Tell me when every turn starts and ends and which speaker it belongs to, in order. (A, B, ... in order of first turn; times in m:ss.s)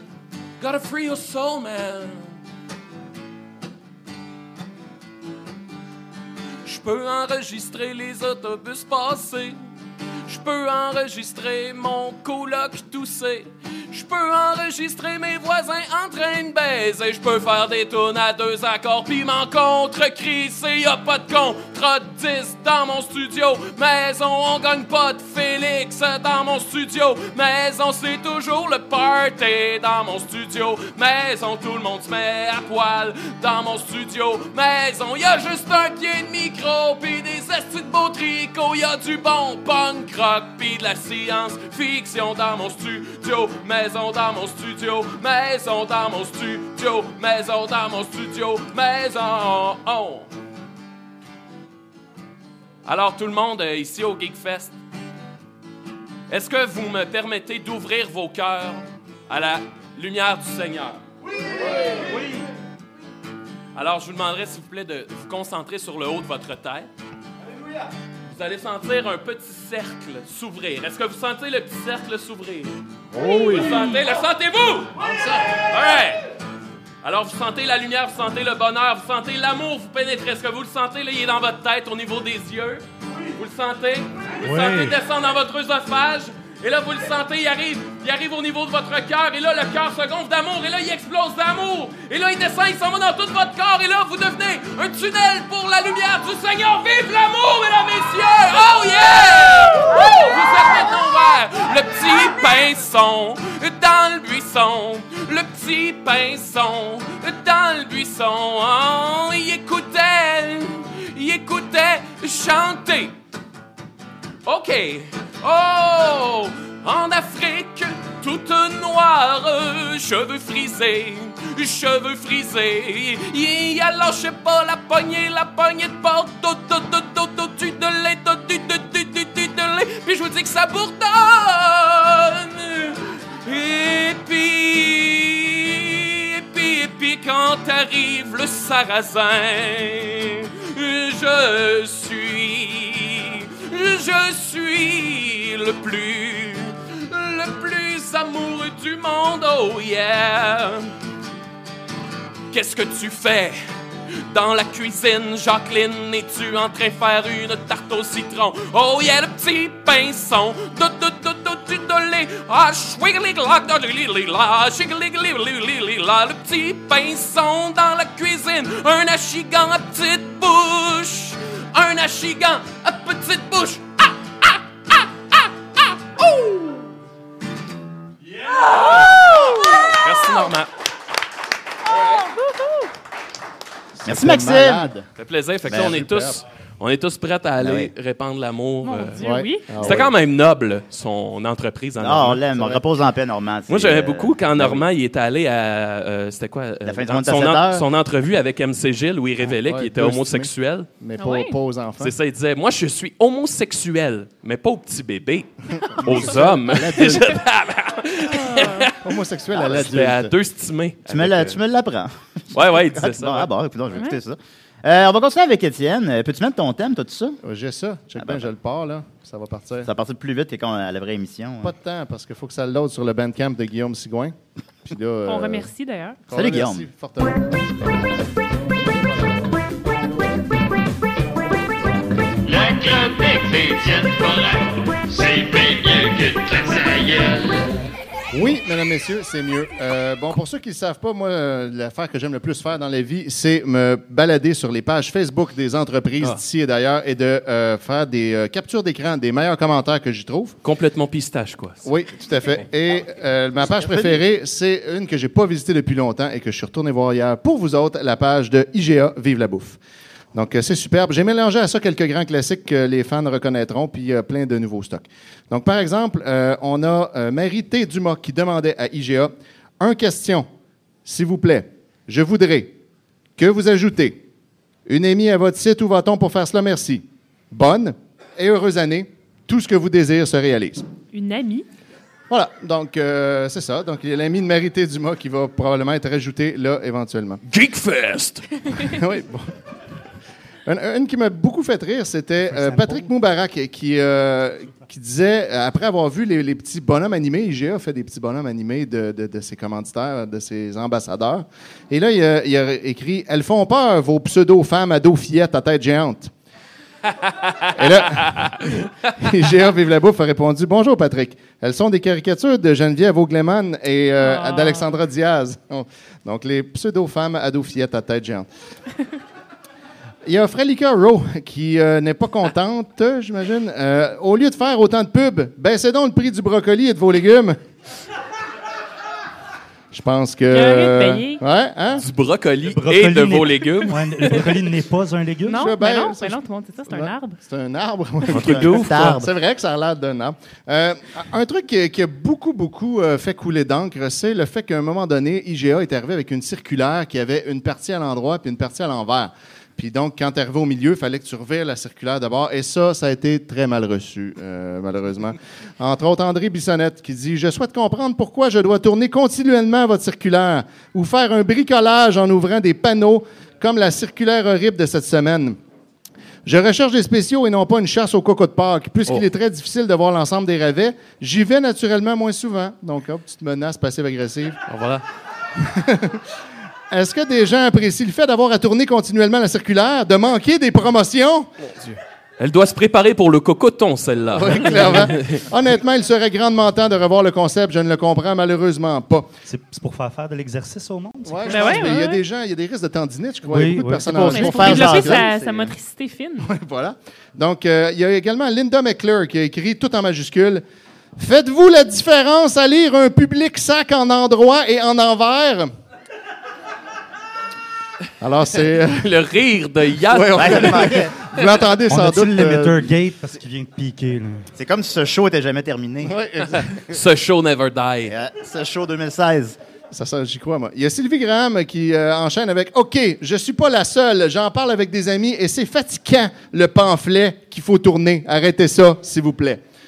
0:00.6-0:02.4 A
0:06.6-0:09.6 A
0:10.3-0:50.3 A
0:52.8-0:54.7 A
0:56.3-1:01.0 A
1:03.8-1:06.9 A
1:08.3-1:12.8 A
1:13.1-1:13.8 B
1:13.2-1:14.0 C
1:13.5-1:16.2 A
1:15.0-1:15.6 B
1:17.0-1:22.8 A
1:23.4-1:53.2 A
1:24.5-1:24.8 B
1:54.4-2:30.9 A
2:32.5-2:33.6 A
2:34.3-2:56.8 A
2:58.9-2:59.2 A
2:59.4-2:59.9 C
2:59.9-3:00.7 A
3:02.2-3:02.9 C
3:04.0-3:05.0 B
3:04.0-3:05.0 D
3:05.2-3:09.2 A
3:05.7-3:06.4 B
3:07.6-3:07.9 D
3:08.8-3:09.8 C
3:09.2-3:10.1 B
3:09.8-3:12.4 A
3:12.0-3:14.8 D
3:12.5-3:12.8 B
3:13.7-3:20.9 A
3:16.8-3:17.8 D
3:19.4-3:22.1 B
3:21.2-3:21.6 C
3:22.0-3:25.5 A
3:26.0-3:27.4 B
3:26.0-3:29.0 A
3:28.3-3:28.9 C
3:29.0-3:30.3 B
3:29.6-3:29.8 D
3:29.6-3:31.6 A
3:31.1-3:37.4 D
3:32.5-3:33.5 A
3:33.9-3:34.2 C
3:37.4-3:39.9 B
3:38.2-3:38.5 D
3:39.8-3:41.7 D
3:41.6-3:44.4 B
3:44.9-3:45.7 B
3:45.3-3:46.2 C
3:46.3-3:49.5 B
3:46.3-3:46.8 D
3:52.5-3:57.7 E
3:58.3-4:10.6 B
4:10.6-4:11.8 A
4:11.8-4:19.8 B
4:13.6-4:14.2 D
4:20.3-4:30.5 B
4:31.0-4:32.8 B
4:33.4-4:34.2 B
4:34.9-4:40.9 B
4:41.1-4:41.7 C
4:42.3-4:47.4 B
4:47.5-4:48.5 A
4:48.8-4:49.5 B
4:50.7-5:06.3 B
4:52.5-4:53.1 F
5:07.3-5:07.7 A
5:07.7-5:18.5 B
5:08.2-5:08.5 A
5:14.2-5:14.9 C
5:20.3-5:27.6 B
5:29.9-5:32.0 B
5:30.5-5:31.4 C
5:32.0-5:34.4 A
5:32.7-5:35.6 F
5:35.4-5:37.4 C
5:35.5-6:05.6 B
5:38.3-5:39.2 A
5:38.3-5:39.3 D
6:06.4-6:14.6 B
6:14.7-6:15.0 A
6:15.6-6:16.2 B
6:16.9-6:21.5 B
6:21.7-6:25.4 A
6:24.3-6:29.3 B
6:29.5-6:31.9 F
6:31.3-6:35.7 B
6:31.5-6:32.2 C
6:33.5-6:35.0 F
6:34.1-6:35.2 D
6:34.3-6:36.5 C
6:36.4-6:40.6 B
6:41.2-6:45.7 B
6:48.2-6:49.1 B
6:48.9-6:51.0 A
6:50.1-6:52.9 B
6:50.3-6:51.1 D
6:51.9-6:54.5 F
6:54.6-6:56.2 D
6:56.0-6:56.7 B
6:56.8-6:58.2 A
6:58.1-6:59.6 D
6:59.9-7:09.6 B